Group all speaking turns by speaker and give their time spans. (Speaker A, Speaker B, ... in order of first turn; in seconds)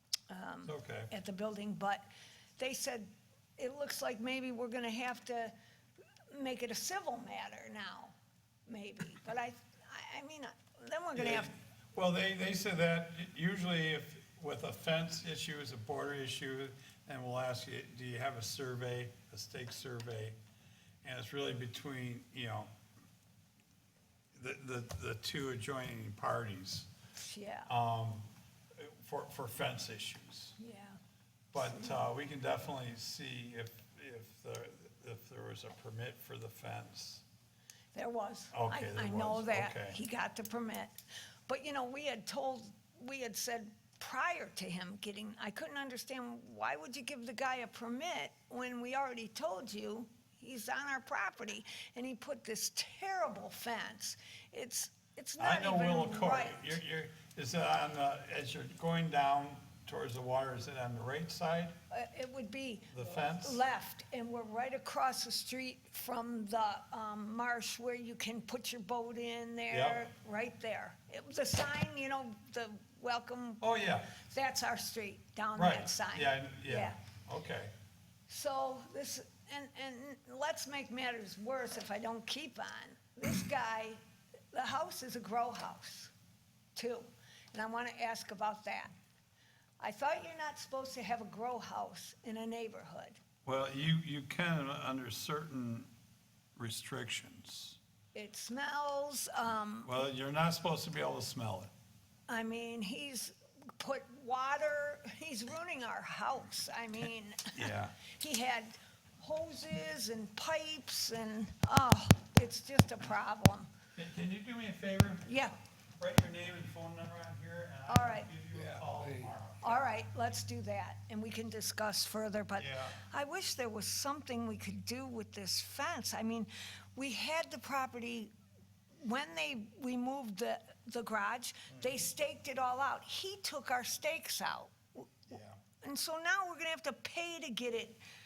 Speaker A: 0.3-2.1, 2.6-5.5, 6.3-8.2, 8.7-11.5, 27.2-27.7, 30.6-31.0, 31.6-31.9, 37.9-40.9, 41.5-56.8, 61.9-73.6, 74.2-77.0, 78.3-84.0, 84.5-86.1, 86.8-88.9, 89.8-93.2, 98.1-99.9, 102.3-113.7, 115.3-115.6, 117.9-118.3, 119.6-128.3, 129.0-138.0
Speaker B: 0.6-1.1, 11.2-20.4, 21.0-22.7, 24.3-26.9, 27.7-30.6, 31.5-37.2, 38.5-40.0, 55.4-61.8, 62.9-63.6, 69.7-70.0, 73.6-74.1, 75.6-77.7, 93.5-95.9, 96.6-97.8, 99.8-101.7, 107.5-108.0, 114.0-115.3, 116.0-119.9, 122.6-123.0, 135.3-135.6